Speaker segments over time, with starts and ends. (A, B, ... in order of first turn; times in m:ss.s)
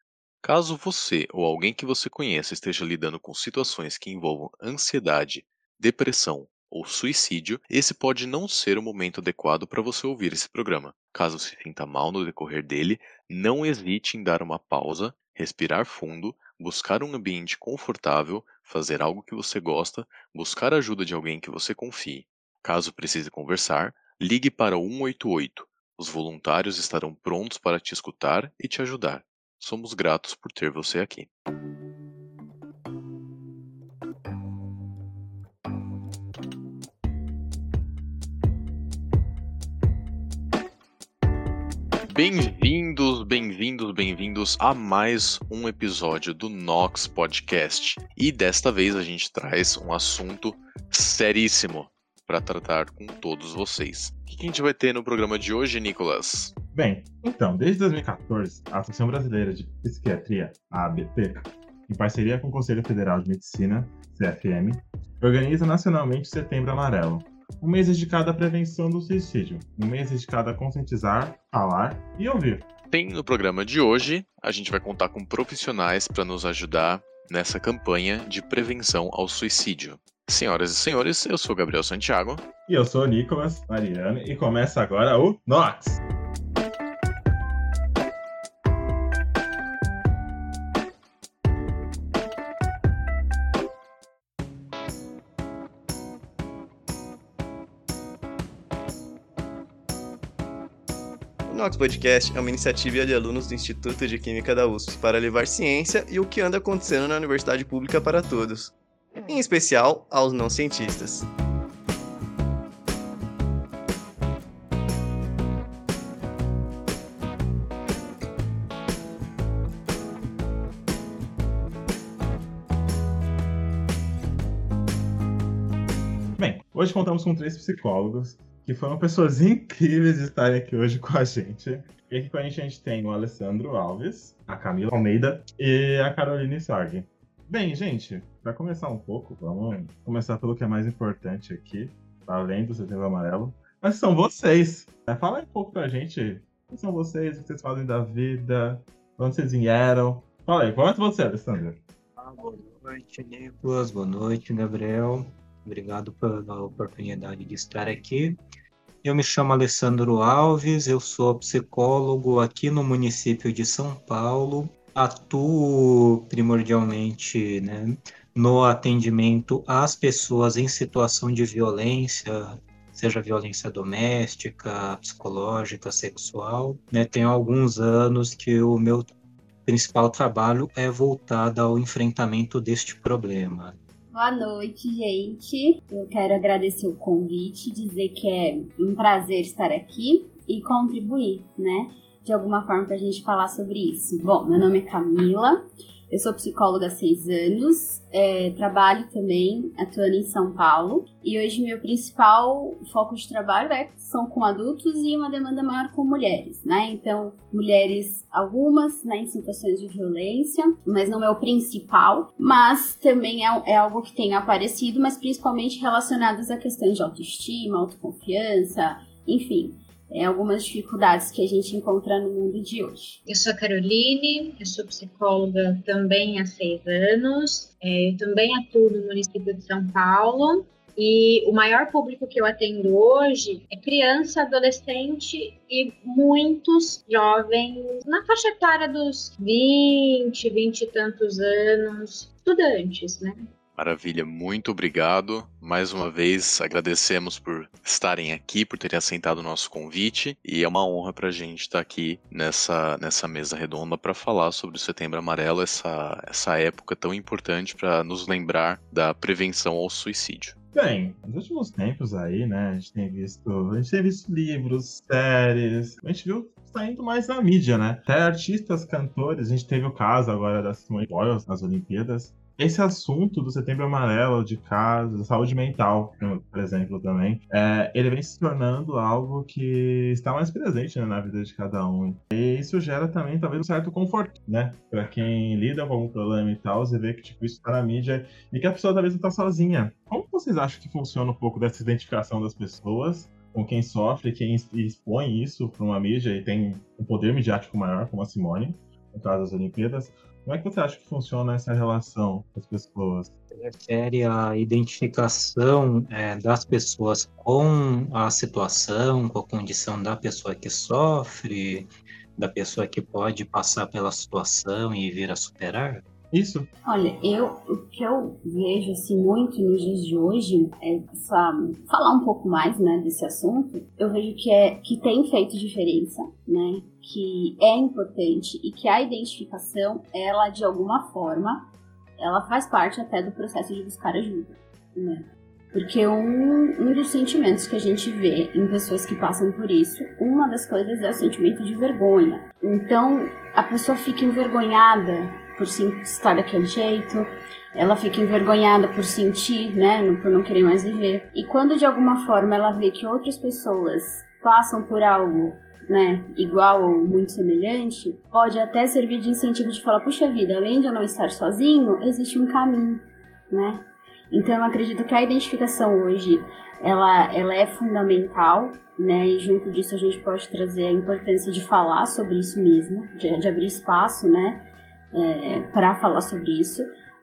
0:00.4-0:31.3 A
0:42.1-0:56.5 A
0:56.7-1:12.6 B
1:12.9-1:22.4 A
1:22.7-1:26.0 B
1:41.5-1:51.3 C
2:06.4-2:31.8 B
2:32.2-2:38.4 D
2:39.0-2:59.1 D
2:59.6-3:03.8 D
3:04.1-3:43.2 E
3:43.3-4:03.4 F
4:03.8-4:20.5 A
4:20.7-5:03.3 B
5:03.5-5:16.0 D
5:16.3-5:16.7 B
5:16.8-5:31.7 E
5:32.2-6:16.9 E